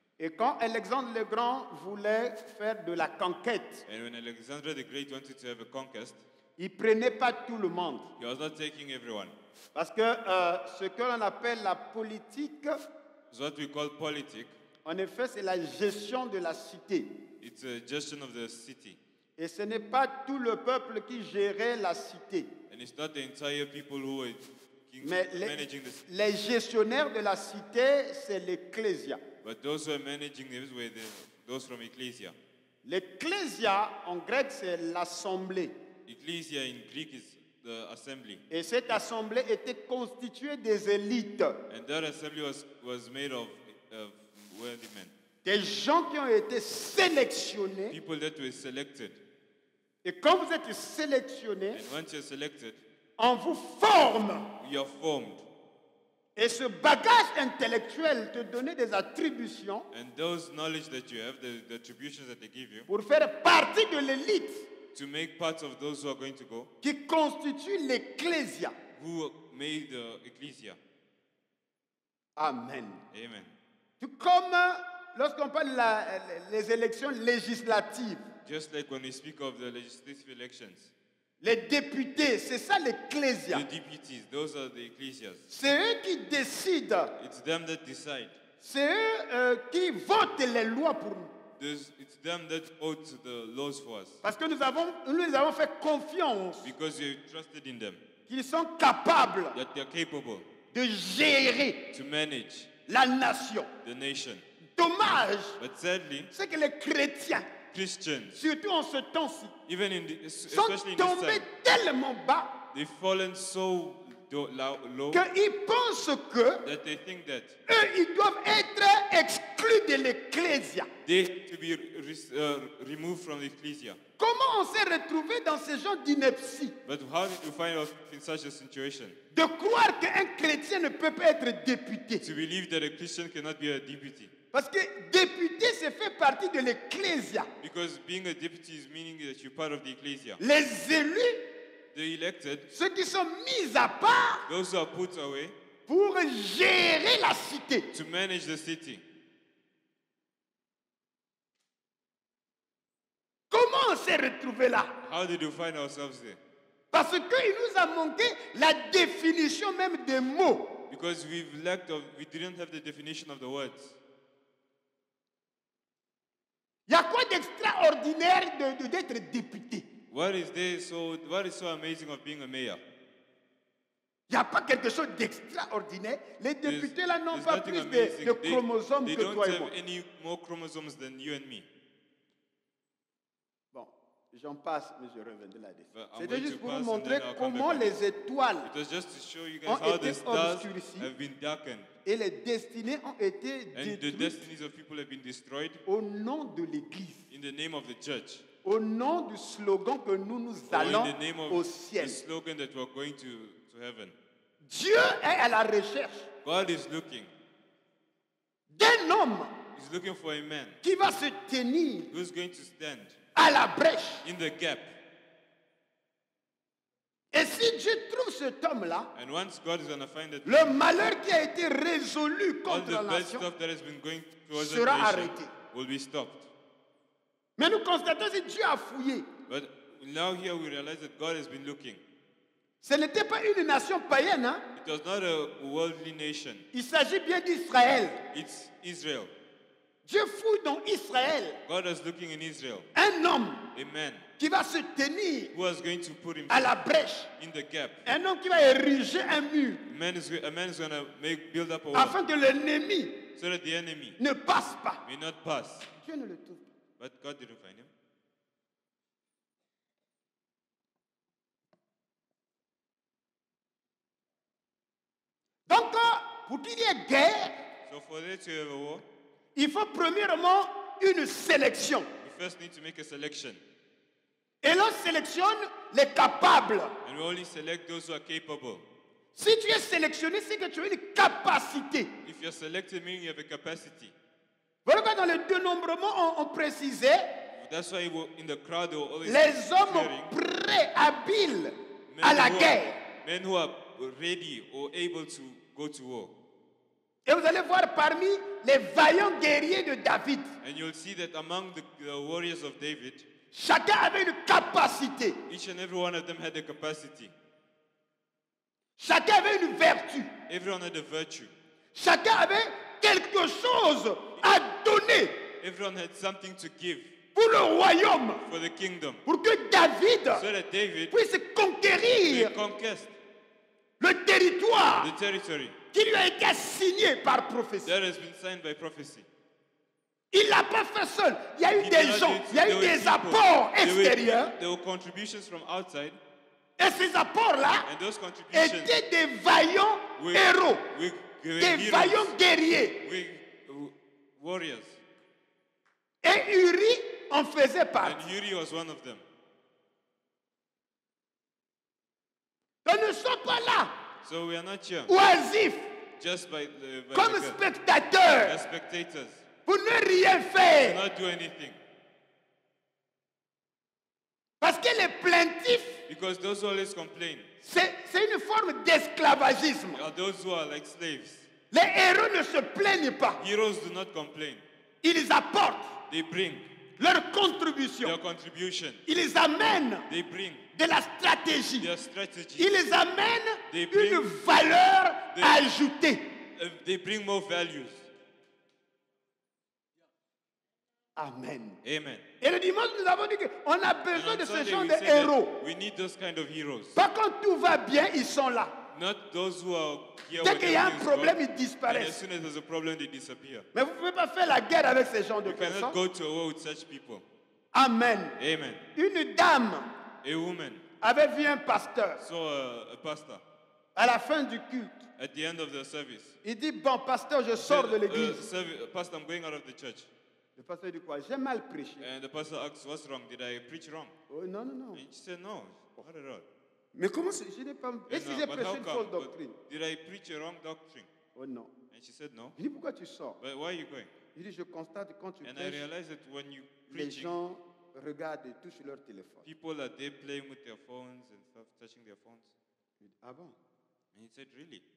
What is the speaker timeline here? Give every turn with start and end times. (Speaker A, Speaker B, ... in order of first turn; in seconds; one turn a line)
Speaker A: 0.2-3.8
Speaker B: 3.9-6.2
Speaker A: 6.6-8.1
Speaker B: 8.2-9.3
Speaker A: 9.8-12.8
Speaker B: 13.3-14.5
Speaker A: 14.8-17.2
Speaker B: 17.4-19.0
Speaker A: 19.4-22.6
Speaker B: 22.7-26.1
Speaker A: 25.0-29.2
Speaker B: 29.4-32.4
Speaker A: 32.9-35.8
Speaker B: 36.1-38.4
Speaker A: 38.5-41.6
Speaker B: 41.7-45.1
Speaker A: 45.4-48.0
Speaker B: 47.9-49.2
Speaker A: 50.0-51.9
Speaker B: 51.7-52.8
Speaker A: 53.2-54.5
Speaker B: 54.6-55.5
Speaker A: 56.4-59.9
Speaker B: 59.9-62.9
Speaker A: 62.9-64.7
Speaker B: 64.9-66.7
Speaker A: 66.8-68.8
Speaker B: 69.0-70.8
Speaker A: 72.4-73.0
Speaker B: 73.1-73.5
Speaker A: 74.0-78.3
Speaker B: 78.5-80.9
Speaker A: 81.4-83.7
Speaker B: 83.5-85.4
Speaker A: 85.5-87.1
Speaker B: 87.2-88.4
Speaker A: 88.6-91.3
Speaker B: 91.6-94.2
Speaker A: 94.2-96.7
Speaker B: 96.6-98.0
Speaker A: 98.3-99.6
Speaker B: 99.5-100.5
Speaker A: 100.7-101.9
Speaker B: 101.9-102.7
Speaker A: 102.9-103.7
Speaker B: 103.8-104.4
Speaker A: 104.8-105.6
Speaker B: 105.6-106.3
Speaker A: 106.3-107.5
Speaker B: 107.7-108.4
Speaker A: 108.3-109.5
Speaker B: 109.7-111.5
Speaker A: 110.5-112.5
Speaker B: 112.7-115.2
Speaker A: 115.1-116.7
Speaker B: 116.6-117.6
Speaker A: 117.7-120.9
Speaker B: 121.0-124.0
Speaker A: 124.2-126.8
Speaker B: 126.9-129.2
Speaker A: 129.3-132.2
Speaker B: 132.2-134.3
Speaker A: 134.5-137.5
Speaker B: 137.6-140.4
Speaker A: 140.4-141.4
Speaker B: 141.9-142.7
Speaker A: 142.7-144.5
Speaker B: 144.5-145.6
Speaker A: 145.9-147.9
Speaker B: 147.9-149.0
Speaker A: 153.5-154.9
Speaker B: 155.0-156.4
Speaker A: 156.9-160.8
Speaker B: 160.9-164.0
Speaker A: 166.9-169.9
Speaker B: 170.1-172.8
Speaker A: 174.3-179.7
Speaker B: 176.6-181.7
Speaker A: 183.7-188.7
Speaker B: 185.9-188.0
Speaker B: 188.6-191.9
Speaker A: 189.7-191.1
Speaker A: 192.1-194.4
Speaker B: 193.7-195.8
Speaker A: 195.9-197.3
Speaker B: 197.3-198.4
Speaker A: 198.6-202.2
Speaker B: 200.7-204.2
Speaker A: 204.6-206.3
Speaker B: 206.4-207.3
Speaker A: 208.7-209.6
Speaker B: 209.8-210.8
Speaker A: 210.8-212.1
Speaker B: 212.1-213.2
Speaker A: 213.3-214.2
Speaker B: 214.2-215.0
Speaker A: 217.3-219.1
Speaker B: 219.1-220.8
Speaker A: 220.4-223.5
Speaker B: 222.7-226.5
Speaker A: 224.5-225.5
Speaker A: 227.6-229.3
Speaker B: 229.5-232.0
Speaker A: 232.8-234.7
Speaker B: 234.8-236.7
Speaker A: 236.7-238.2
Speaker B: 238.3-239.3
Speaker A: 240.1-241.6
Speaker B: 241.7-242.9
Speaker A: 242.9-243.7
Speaker B: 243.7-244.3
Speaker A: 244.4-245.5
Speaker B: 245.5-246.7
Speaker A: 246.5-247.3
Speaker B: 247.4-248.2
Speaker A: 248.1-249.8
Speaker B: 249.9-252.2
Speaker A: 251.9-253.2
Speaker B: 253.3-254.2
Speaker A: 254.2-255.0
Speaker B: 255.1-255.9
Speaker A: 255.9-256.6
Speaker B: 257.0-257.9
Speaker A: 265.7-267.6
Speaker B: 267.9-269.1
Speaker A: 269.6-272.1
Speaker B: 272.2-273.6
Speaker A: 274.6-277.0
Speaker B: 277.0-278.9
Speaker A: 279.4-282.1
Speaker B: 282.2-284.1
Speaker A: 284.9-287.3
Speaker B: 287.5-290.3
Speaker A: 289.2-293.0
Speaker B: 292.1-296.3
Speaker A: 297.3-300.5
Speaker B: 300.6-303.3
Speaker A: 303.5-305.4
Speaker B: 305.5-307.3
Speaker A: 309.0-310.3
Speaker B: 310.5-311.5
Speaker A: 311.9-315.4
Speaker B: 315.6-317.1
Speaker A: 317.4-318.4
Speaker B: 318.4-319.2
Speaker A: 319.2-320.5
Speaker B: 320.3-321.1
Speaker A: 321.1-322.6
Speaker B: 322.2-323.2
Speaker A: 324.0-325.1
Speaker B: 325.0-325.8
Speaker A: 325.9-327.9
Speaker B: 327.8-329.3
Speaker A: 330.3-334.5
Speaker B: 331.7-336.2
Speaker A: 336.8-337.9
Speaker B: 337.9-339.0
Speaker A: 338.5-340.9
Speaker B: 340.2-342.4
Speaker A: 341.6-343.0
Speaker B: 343.0-345.0
Speaker A: 346.2-348.2
Speaker B: 348.0-349.2
Speaker A: 352.9-354.0
Speaker B: 354.2-355.1
Speaker A: 355.1-355.9
Speaker B: 356.2-357.6
Speaker A: 357.1-358.6
Speaker B: 358.4-359.4
Speaker A: 359.7-361.0
Speaker B: 360.8-361.8
Speaker A: 364.6-366.0
Speaker B: 366.1-367.5
Speaker A: 367.6-370.0
Speaker B: 369.9-371.5
Speaker A: 371.7-373.4
Speaker B: 373.4-374.6
Speaker A: 375.0-376.0
Speaker B: 376.1-376.7
Speaker A: 377.0-378.2
Speaker B: 378.0-379.0
Speaker A: 379.1-380.1
Speaker B: 380.1-380.6
Speaker A: 380.8-381.9
Speaker B: 381.8-382.8
Speaker A: 382.6-386.3
Speaker B: 383.7-384.3
Speaker B: 385.3-385.7
Speaker B: 386.6-388.1
Speaker A: 391.2-391.8
Speaker B: 391.8-392.2
Speaker A: 392.4-395.6
Speaker B: 394.1-397.0
Speaker A: 396.9-398.7
Speaker B: 398.9-403.7
Speaker A: 400.4-402.2
Speaker A: 403.7-406.0
Speaker B: 405.4-407.3
Speaker A: 407.7-408.4
Speaker B: 408.4-408.9
Speaker A: 408.9-409.9
Speaker B: 410.2-410.8
Speaker A: 411.0-412.2
Speaker B: 412.2-413.4
Speaker A: 413.9-415.1
Speaker B: 415.2-416.4
Speaker A: 416.4-418.4
Speaker B: 417.6-420.1
Speaker A: 420.6-422.1
Speaker B: 422.0-424.1
Speaker A: 424.3-425.0
Speaker B: 424.9-426.5
Speaker A: 426.9-429.6
Speaker B: 428.1-431.1
Speaker A: 431.4-431.7
Speaker B: 431.9-432.6
Speaker A: 432.6-433.4
Speaker B: 433.4-434.1
Speaker A: 434.4-435.9
Speaker B: 435.4-437.3
Speaker A: 436.9-439.4
Speaker B: 439.4-442.5
Speaker A: 443.0-443.6
Speaker B: 444.1-444.8